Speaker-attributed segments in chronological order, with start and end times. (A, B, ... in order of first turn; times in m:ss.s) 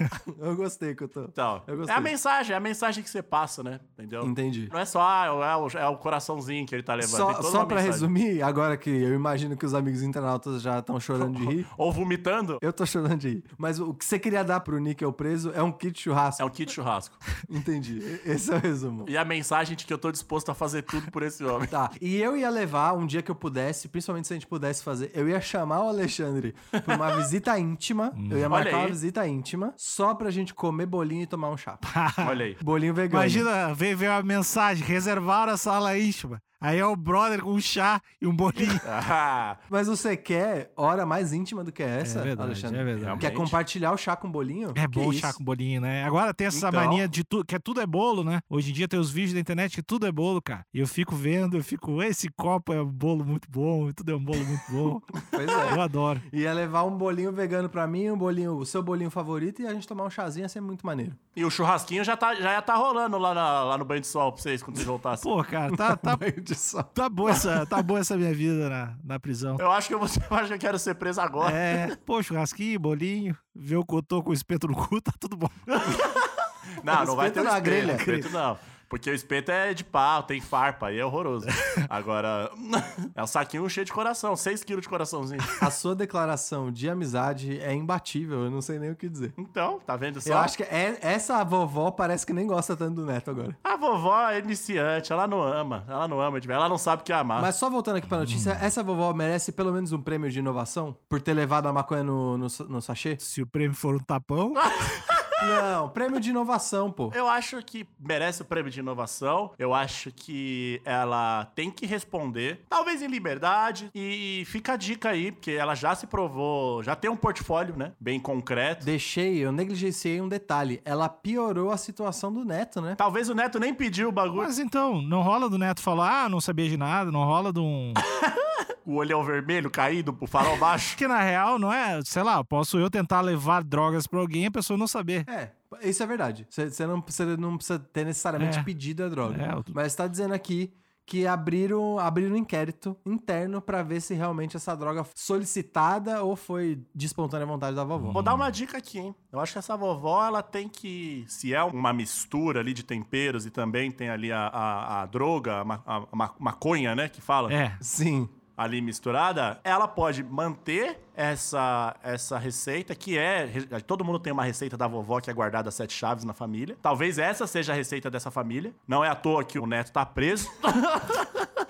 0:00.2-0:02.1 A
0:01.4-0:08.1 B
0:04.2-0:04.7 A
0:07.0-0:11.7 A
0:11.2-0:12.6 B
0:12.6-0:16.4 A
0:16.4-0:17.2 B
0:17.5-0:19.1 A
0:19.0-0:21.8 B
0:21.7-0:31.8 A
0:26.9-0:27.2 B
0:28.1-0:28.5 C
0:28.5-0:29.0 B
0:31.9-0:32.4 C
0:32.2-0:32.6 B
0:32.6-0:33.5 A
0:33.1-0:38.8 C
0:38.6-0:39.6 B
0:39.7-0:45.4 A
0:42.0-0:43.3 C
0:43.0-0:43.6 B
0:44.7-0:55.0 C
0:46.5-0:47.1 B
0:55.3-1:01.2 A
0:55.6-0:56.2 C
1:01.4-1:05.3 B
1:05.2-1:06.2 C
1:05.7-1:07.5 A
1:06.9-1:09.6 C
1:09.6-1:11.9 B
1:11.4-1:15.7 C
1:15.7-1:16.3 B
1:16.8-1:25.5 B
1:16.9-1:18.1 A
1:17.8-1:18.3 C
1:25.6-1:29.4 A
1:29.4-1:30.5 B
1:30.2-1:33.6 A
1:33.6-1:37.5 B
1:37.4-1:43.2 A
1:38.1-1:38.6 C
1:43.2-1:44.7 C
1:44.6-1:45.4 B
1:45.4-1:47.2 A
1:47.1-1:58.9 B
1:58.8-2:03.0 A
2:03.0-2:04.5 B
2:04.3-2:08.0 C
2:08.8-2:11.0 B
2:11.0-2:15.3 C
2:15.3-2:28.3 A
2:18.4-2:18.7 C
2:19.2-2:19.8 C
2:28.0-2:28.5 C
2:28.1-2:37.6 B
2:37.5-2:37.8 C
2:37.8-2:38.4 A
2:38.6-2:51.5 B